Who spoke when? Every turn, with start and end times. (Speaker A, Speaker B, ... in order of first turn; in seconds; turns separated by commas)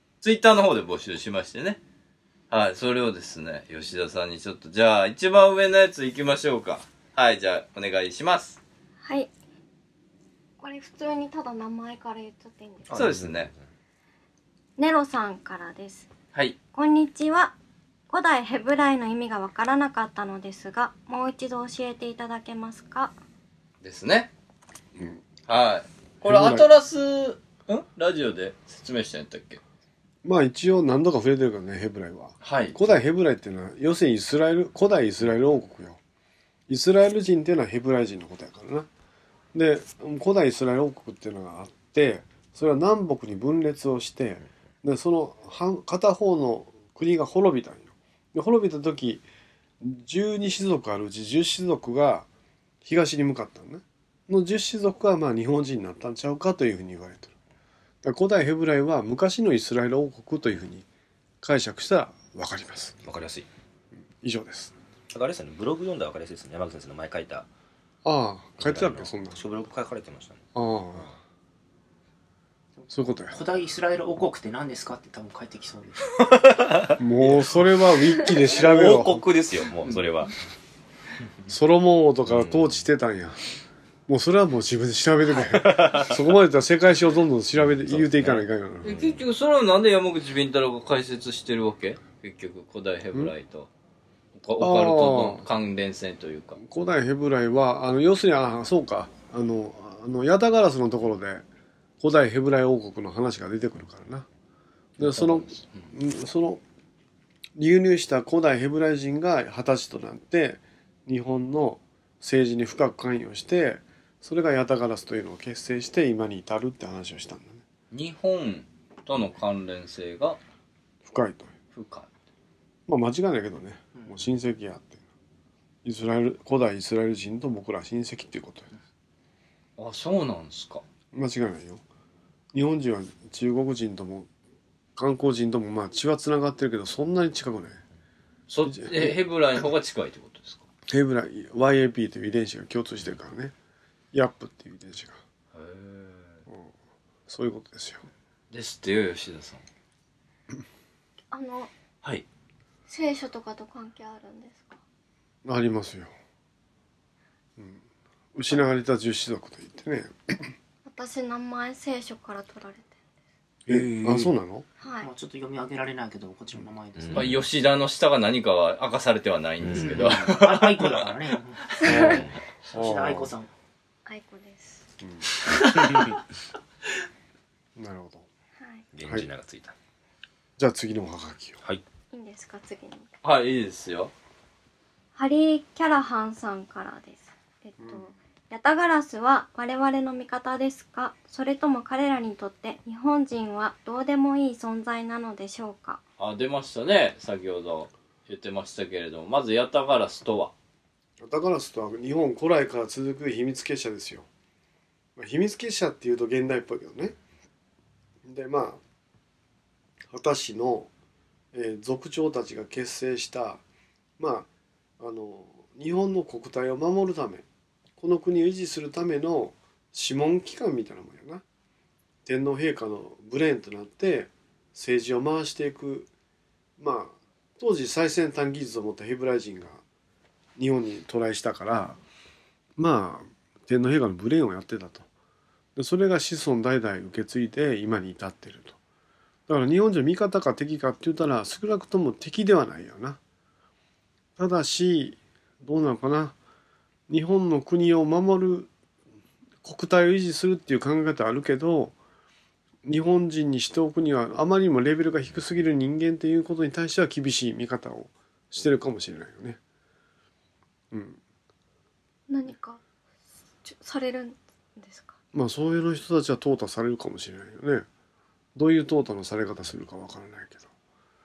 Speaker A: 0.2-1.8, Speaker A: 2.5-8.6, Speaker B: 9.0-9.3, Speaker B: 10.6-13.0, Speaker A: 12.9-13.5, Speaker C: 12.9-13.6, Speaker B: 14.8-16.1, Speaker B: 16.7-17.5, Speaker B: 18.1-23.1, Speaker A: 23.8-24.3, Speaker A: 25.5-29.6, Speaker D: 26.2-26.6, Speaker D: 30.2-36.0, Speaker A: 32.4-32.9, Speaker D: 36.7-38.9, Speaker D: 39.5-49.2, Speaker D: 49.8-52.2, Speaker D: 52.8-57.3, Speaker D: 58.0-60.9, Speaker D: 61.4-63.0, Speaker C: 63.0-63.5, Speaker D: 64.2-64.7, Speaker C: 65.1-67.5, Speaker D: 68.0-69.4, Speaker C: 68.6-70.4, Speaker D: 70.5-71.1, Speaker E: 72.8-76.0, Speaker D: 72.9-73.4, Speaker C: 76.2-77.5, Speaker D: 77.0-79.2, Speaker C: 78.5-80.3, Speaker D: 81.5-83.4, Speaker C: 82.3-82.8, Speaker D: 84.1-89.0, Speaker C: 85.4-86.2, Speaker C: 87.6-89.2, Speaker A: 88.8-93.7, Speaker A: 94.3-96.6, Speaker D: 94.6-95.5, Speaker D: 96.6-101.4, Speaker D: 102.0-104.3, Speaker D: 105.0-106.6, Speaker A: 105.0-105.9, Speaker D: 107.6-117.6, Speaker A: 117.9-120.4, Speaker D: 121.0-121.5, Speaker A: 121.7-122.1, Speaker D: 122.9-125.0, Speaker D: 125.8-128.7, Speaker A: 129.8-130.8, Speaker D: 131.1-131.8, Speaker D: 132.5-134.3, Speaker D: 134.9-137.8, Speaker A: 138.5-140.7, Speaker D: 138.6-139.2, Speaker D: 140.9-143.5, Speaker D: 144.1-145.2, Speaker A: 145.5-146.4, Speaker D: 147.3-148.0, Speaker A: 148.5-149.6, Speaker B: 151.3-151.7, Speaker B: 152.9-154.8, Speaker D: 155.4-156.1, Speaker D: 157.6-157.8, Speaker D: 158.3-160.5, Speaker B: 160.8-163.0, Speaker C: 163.7-164.3, Speaker D: 163.7-164.7, Speaker B: 164.8-165.1, Speaker E: 165.0-167.3, Speaker C: 167.0-167.4, Speaker A: 167.1-171.0, Speaker C: 169.6-170.3, Speaker E: 169.7-172.2, Speaker B: 171.8-172.2, Speaker D: 171.8-173.3, Speaker C: 172.0-172.4, Speaker E: 172.7-173.5, Speaker B: 174.1-174.8, Speaker D: 177.8-178.3, Speaker B: 178.6-178.8, Speaker C: 178.9-179.7, Speaker D: 180.6-181.6, Speaker B: 182.1-183.1, Speaker A: 183.2-184.1, Speaker B: 185.2-196.0, Speaker D: 187.8-188.0, Speaker A: 196.2-200.5, Speaker D: 201.2-204.2, Speaker D: 205.2-207.1, Speaker D: 208.2-208.8, Speaker D: 210.1-210.9, Speaker D: 211.5-213.6, Speaker D: 214.2-214.5, Speaker D: 215.0-217.4, Speaker D: 218.0-221.4, Speaker D: 222.2-226.1, Speaker D: 226.8-229.8, Speaker D: 230.6-232.0, Speaker D: 232.8-235.1, Speaker D: 235.8-238.8, Speaker D: 239.5-243.2, Speaker D: 244.4-246.3, Speaker D: 247.1-248.7, Speaker D: 249.6-251.9, Speaker D: 252.8-259.6, Speaker D: 260.9-261.2, Speaker B: 262.3-262.8, Speaker B: 263.6-265.2, Speaker D: 265.3-267.8, Speaker D: 268.5-270.7